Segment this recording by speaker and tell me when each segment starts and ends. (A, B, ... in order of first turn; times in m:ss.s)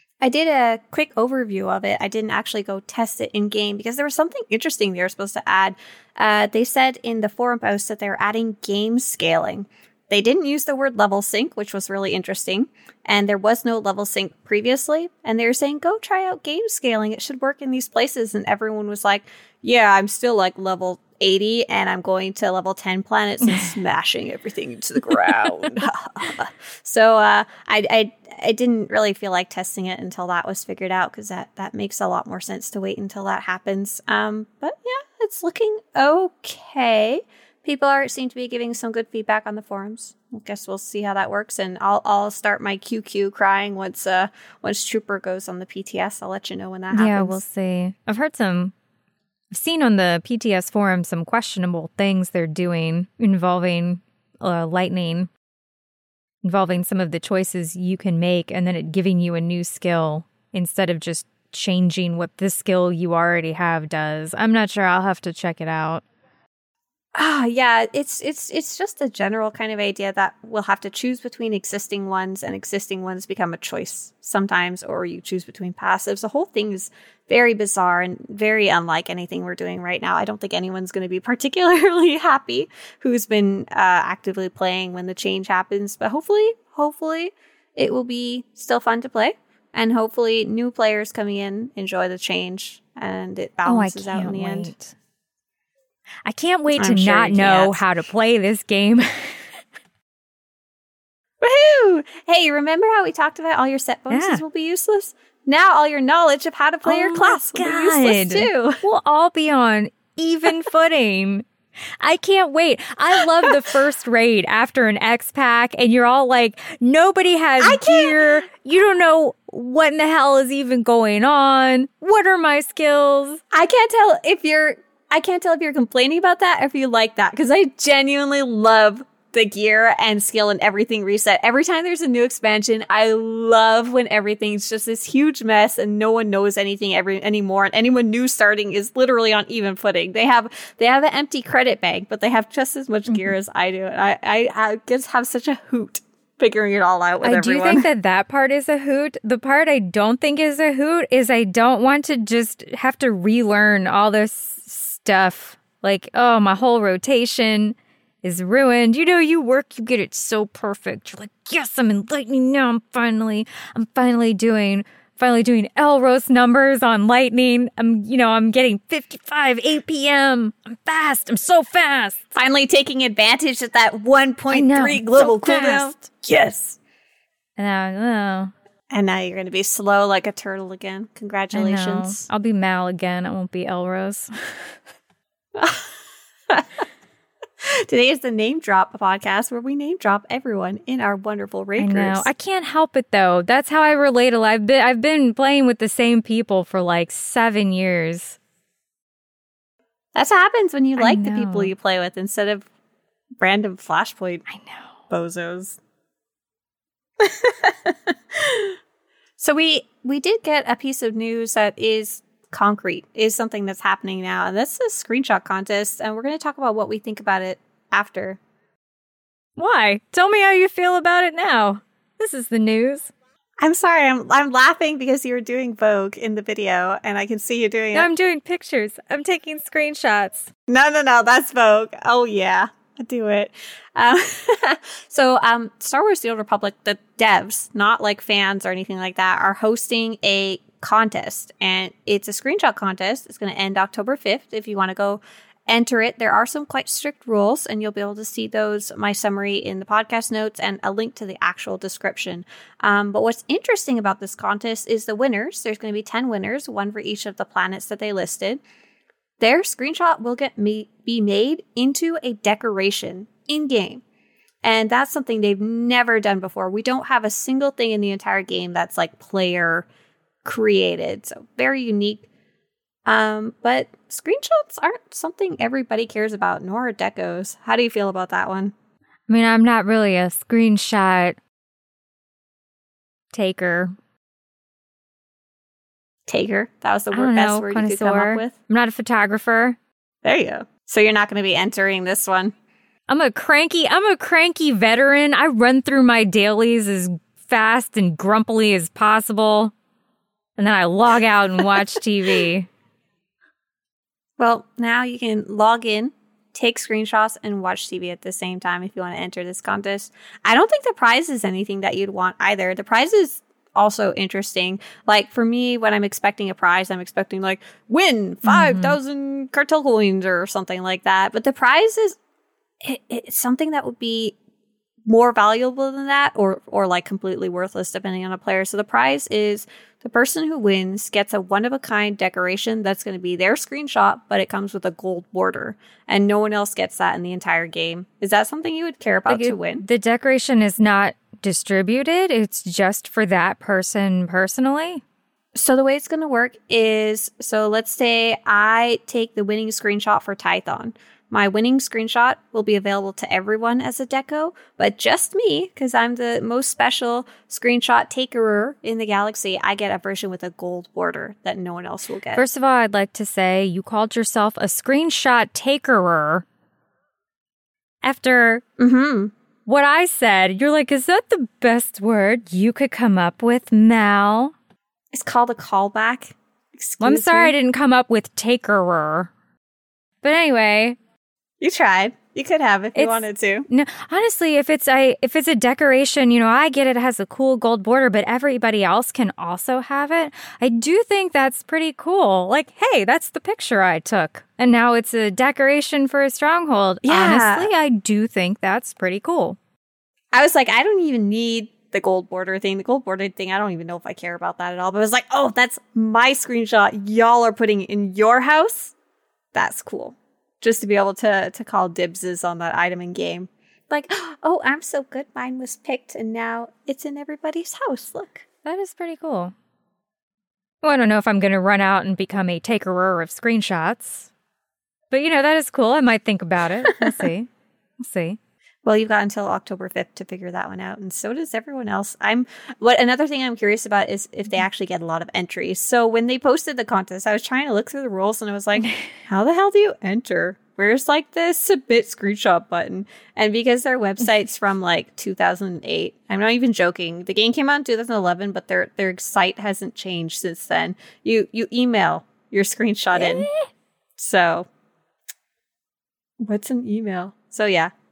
0:00.2-0:47.4 A
0:23.4-0:23.7 B
0:46.9-0:48.7 B
0:49.5-0:55.3 B
0:56.4-1:06.0 B
1:07.2-1:34.7 A
1:33.6-1:34.9 B
1:36.2-1:39.6 B
1:36.7-1:37.8 A
1:41.4-1:48.8 A
1:44.1-1:44.4 B
1:46.8-1:51.4 B
1:52.0-2:03.4 B
1:53.1-1:53.6 A
1:57.6-1:58.4 A
2:03.5-2:27.8 A
2:27.2-2:52.3 B
2:52.3-2:56.8 A
2:54.5-2:56.1 B
2:57.6-2:58.5 B
2:58.9-3:02.2 A
3:01.5-3:04.8 B
3:05.5-3:06.0 A
3:06.5-3:06.8 A
3:07.6-3:12.3 A
3:11.8-3:18.4 B
3:20.1-3:22.7 A
3:21.0-3:21.7 B
3:23.4-3:24.4 A
3:24.5-3:25.0 B
3:25.1-3:25.8 A
3:27.2-3:28.8 A
3:29.4-3:38.4 A
3:39.6-3:43.1 B
3:43.6-3:48.1 A
3:47.9-3:50.5 B
3:50.7-4:18.6 A
4:19.4-4:24.0 A
4:24.6-4:29.9 A
4:30.4-4:32.3 A
4:33.0-4:38.7 A
4:39.3-4:41.4 B
4:43.3-4:44.0 B
4:46.3-4:48.5 A
4:47.1-4:49.8 B
4:50.2-4:52.5 A
4:53.1-4:59.7 B
5:00.6-5:02.7 B
5:04.4-5:22.2 A
5:18.4-5:19.0 B
5:22.8-5:24.4 A
5:25.0-5:39.8 A
5:39.3-5:45.0 B
5:45.5-6:02.4 A
6:02.3-6:06.4 B
6:08.0-6:08.6 B
6:08.8-6:09.3 A
6:09.6-6:14.5 B
6:15.1-6:17.5 A
6:17.0-6:19.3 B
6:20.2-6:21.0 B
6:21.6-6:23.7 A
6:22.9-6:39.6 B
6:37.0-6:37.7 A
6:40.3-6:48.9 A
6:49.5-6:58.4 A
6:58.6-6:59.5 B
7:00.8-7:04.3 B
7:05.1-7:08.4 B
7:06.8-7:07.3 A
7:08.8-7:33.5 A
7:18.8-7:19.1 B
7:33.1-7:33.7 B
7:34.2-7:34.7 A
7:36.4-7:37.9 A